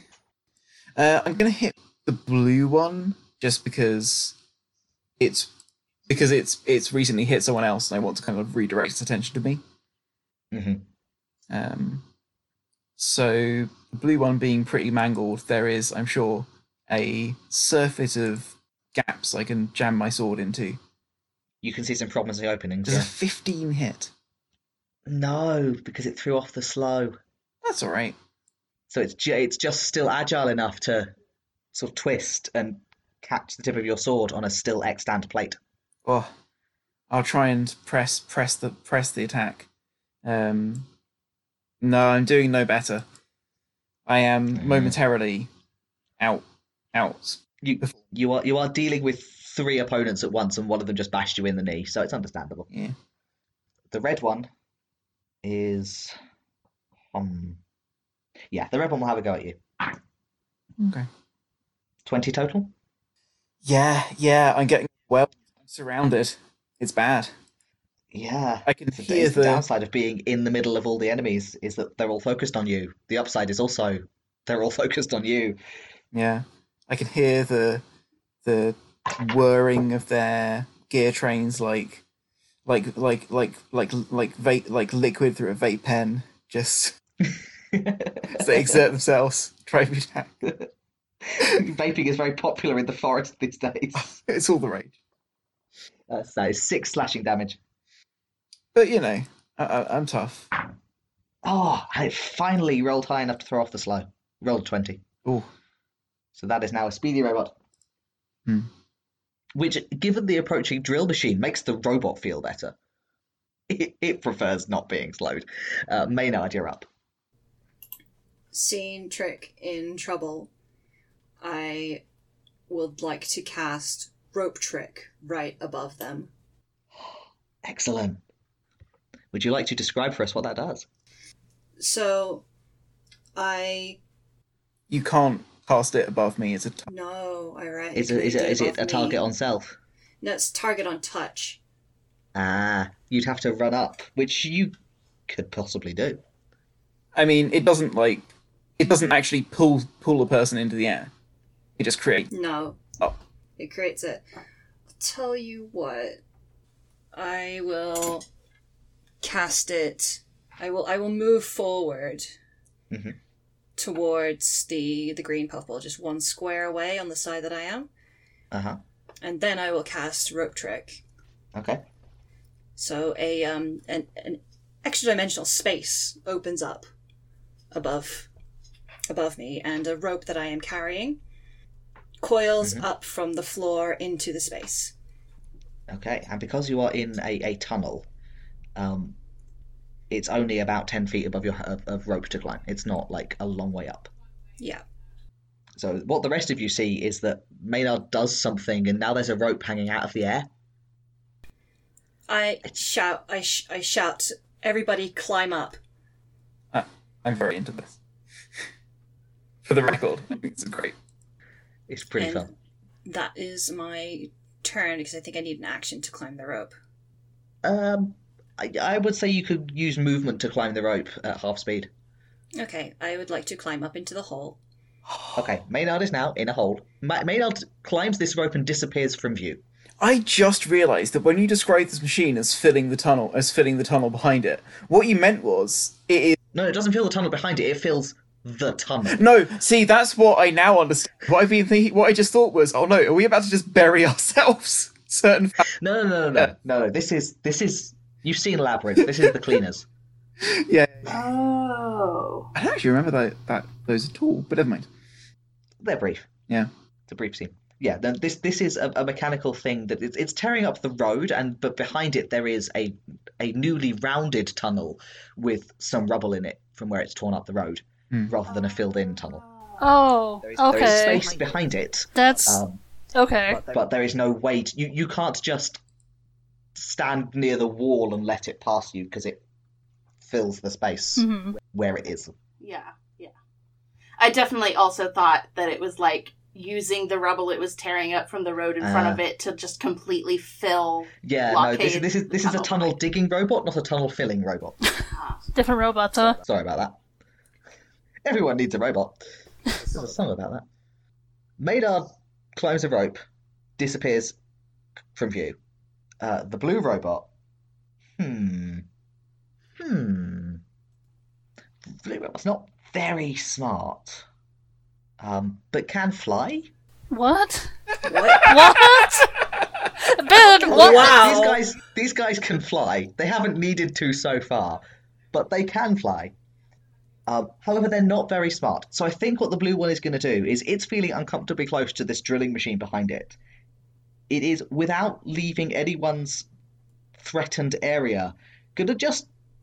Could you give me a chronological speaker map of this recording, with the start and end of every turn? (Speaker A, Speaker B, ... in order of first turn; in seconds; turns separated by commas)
Speaker A: 0.9-4.3, Speaker A: 5.2-5.5, Speaker A: 6.1-9.6, Speaker B: 10.5-10.8, Speaker A: 11.5-12.0, Speaker A: 13.0-20.8, Speaker B: 21.6-23.1, Speaker A: 22.9-24.1, Speaker B: 25.1-27.2, Speaker A: 27.6-28.1, Speaker B: 28.9-31.1, Speaker B: 31.7-35.6, Speaker A: 36.0-36.3, Speaker A: 37.1-39.7, Speaker A: 40.2-40.9, Speaker A: 41.8-43.0, Speaker A: 44.0-45.5, Speaker B: 44.5-45.0, Speaker A: 46.2-47.9, Speaker B: 47.6-52.7, Speaker B: 53.9-54.5, Speaker B: 55.4-56.1, Speaker B: 57.1-57.6, Speaker B: 58.5-59.6, Speaker A: 60.8-61.1, Speaker B: 62.0-62.7, Speaker A: 63.6-67.3, Speaker B: 68.1-75.6, Speaker A: 68.7-69.7, Speaker A: 76.1-77.8, Speaker A: 78.4-82.0, Speaker A: 82.7-87.0, Speaker B: 87.7-88.7, Speaker A: 88.3-90.3, Speaker B: 91.2-94.2, Speaker A: 94.0-94.9, Speaker B: 96.1-97.6, Speaker A: 98.7-100.5, Speaker B: 101.4-105.0, Speaker B: 106.3-107.5, Speaker B: 109.5-112.7, Speaker B: 113.7-116.9, Speaker C: 118.5-120.5, Speaker C: 121.4-122.0, Speaker C: 122.7-126.3, Speaker B: 127.6-128.2, Speaker B: 129.3-130.8, Speaker C: 131.8-132.4, Speaker C: 133.3-134.0, Speaker A: 134.9-136.9, Speaker C: 136.9-139.2, Speaker B: 137.9-139.8, Speaker C: 140.2-141.6, Speaker B: 142.3-144.7, Speaker B: 145.3-146.2, Speaker A: 147.1-148.3, Speaker A: 148.8-151.1, Speaker A: 151.8-152.3, Speaker C: 152.3-153.0, Speaker C: 153.6-154.2, Speaker C: 155.0-156.2, Speaker C: 157.1-158.2, Speaker C: 159.2-162.3, Speaker B: 162.9-163.2, Speaker C: 163.8-167.9, Speaker B: 168.5-168.8, Speaker C: 169.2-171.0, Speaker B: 171.5-171.8, Speaker C: 172.8-176.8, Speaker C: 177.7-178.3, Speaker C: 179.1-181.2, Speaker C: 182.2-184.9, Speaker B: 185.9-188.1, Speaker B: 188.8-189.2, Speaker B: 190.1-194.1, Speaker B: 195.8-200.5, Speaker C: 202.3-205.8, Speaker A: 206.7-207.9, Speaker A: 209.6-210.9, Speaker B: 211.9-212.5, Speaker C: 212.2-212.5, Speaker C: 213.0-216.7, Speaker B: 217.6-221.9, Speaker C: 222.6-224.6, Speaker B: 225.3-229.6, Speaker A: 230.0-236.4, Speaker B: 236.5-239.2, Speaker A: 239.1-245.7, Speaker B: 245.7-249.8, Speaker A: 249.0-249.3, Speaker A: 250.4-251.1, Speaker D: 251.1-252.5, Speaker A: 252.5-254.9, Speaker B: 255.8-256.3, Speaker B: 257.1-269.4, Speaker E: 269.8-271.3, Speaker B: 270.4-272.8, Speaker E: 272.1-272.6, Speaker E: 273.1-273.6, Speaker B: 273.5-275.8, Speaker B: 276.7-279.4, Speaker B: 280.2-282.3, Speaker E: 281.1-281.6, Speaker D: 282.6-283.3, Speaker D: 284.2-292.9, Speaker B: 288.8-289.2, Speaker B: 291.2-294.8, Speaker D: 295.1-295.4, Speaker E: 295.5-296.4, Speaker B: 296.4-297.0, Speaker B: 298.2-299.2, Speaker B: 299.7-300.6, Speaker B: 301.6-303.2, Speaker B: 303.8-304.3, Speaker B: 305.1-305.6, Speaker B: 306.2-307.3, Speaker B: 308.2-308.8, Speaker B: 309.8-310.6, Speaker B: 312.0-314.2, Speaker B: 315.2-316.7, Speaker E: 317.1-317.7, Speaker C: 318.0-318.6, Speaker E: 318.3-319.3, Speaker A: 318.6-319.1, Speaker E: 320.0-321.1, Speaker B: 320.6-326.3, Speaker C: 320.7-321.6, Speaker B: 327.2-333.4, Speaker B: 334.3-336.4, Speaker B: 337.2-339.3